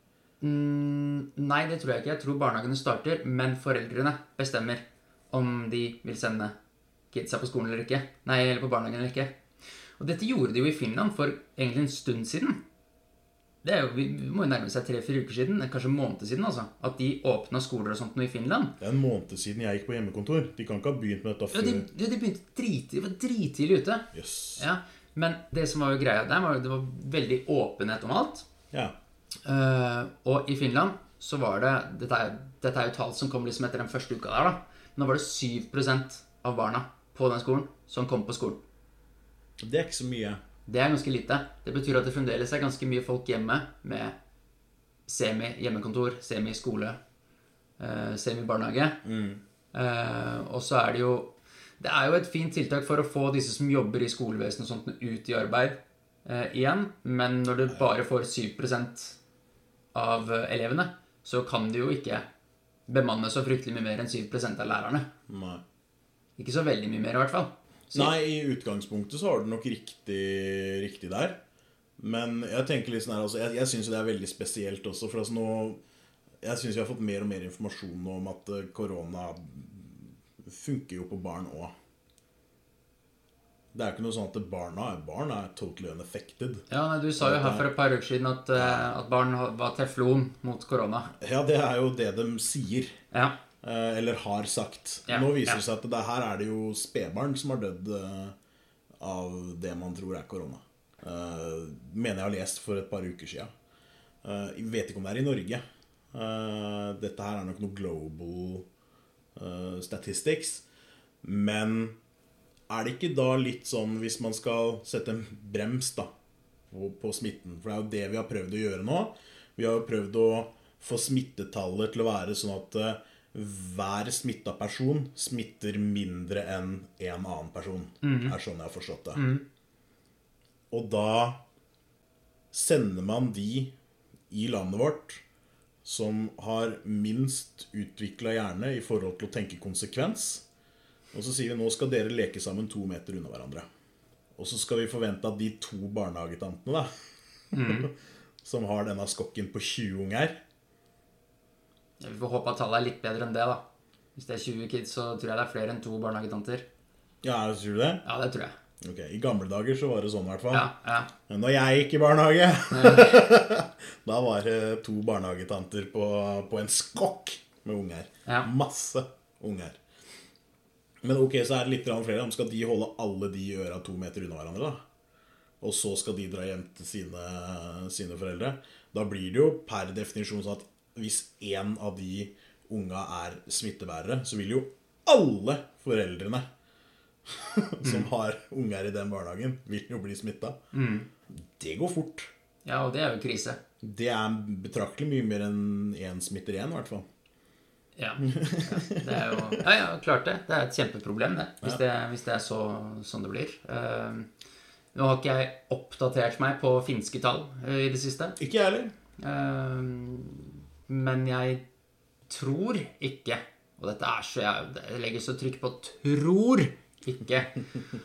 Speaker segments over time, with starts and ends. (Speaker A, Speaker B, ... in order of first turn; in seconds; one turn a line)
Speaker A: 0.4-6.5
Speaker A: 7.1-9.4
Speaker A: 10.0-12.6
Speaker A: 13.6-18.8
Speaker B: 18.8-21.9
Speaker A: 21.5-28.5
Speaker B: 24.1-24.6
Speaker A: 29.4-38.6
Speaker B: 39.6-40.4
Speaker A: 40.7-44.1
Speaker A: 45.1-47.0
Speaker A: 47.8-49.0
Speaker B: 49.0-49.4
Speaker A: 49.7-59.2
Speaker A: 59.9-62.3
Speaker A: 62.9-65.1
Speaker B: 65.3-65.6
Speaker A: 66.4-68.1
Speaker B: 67.9-71.4
Speaker B: 72.0-75.8
Speaker B: 76.4-81.7
Speaker B: 83.7-86.7
Speaker A: 86.7-91.1
Speaker B: 87.2-87.7
Speaker B: 88.5-88.9
Speaker B: 91.2-93.0
Speaker B: 93.6-98.3
Speaker A: 95.1-95.6
Speaker B: 99.0-103.5
Speaker B: 104.2-105.6
Speaker B: 106.1-108.7
Speaker B: 109.4-110.6
Speaker B: 111.2-112.0
Speaker B: 112.7-116.1
Speaker B: 116.7-129.3
Speaker A: 128.0-128.4
Speaker A: 129.2-129.4
Speaker B: 130.7-131.4
Speaker B: 132.5-133.7
Speaker B: 134.3-135.2
Speaker B: 135.8-140.4
Speaker B: 141.1-143.7
Speaker B: 144.4-146.9
Speaker A: 147.5-147.9
Speaker B: 147.5-147.9
Speaker B: 148.4-150.4
Speaker A: 152.0-153.6
Speaker A: 154.2-156.7
Speaker B: 157.2-158.0
Speaker A: 158.1-158.6
Speaker B: 158.8-160.7
Speaker A: 160.5-161.1
Speaker B: 161.3-169.8
Speaker A: 162.7-163.3
Speaker B: 171.0-174.8
Speaker B: 175.6-186.4
Speaker B: 187.3-190.6
Speaker A: 187.8-188.1
Speaker A: 190.7-191.1
Speaker B: 191.4-192.3
Speaker A: 192.7-193.6
Speaker B: 193.8-197.1
Speaker A: 198.0-204.3
Speaker B: 198.2-199.6
Speaker A: 204.9-208.4
Speaker B: 208.4-208.9
Speaker A: 209.2-211.6
Speaker A: 212.3-217.6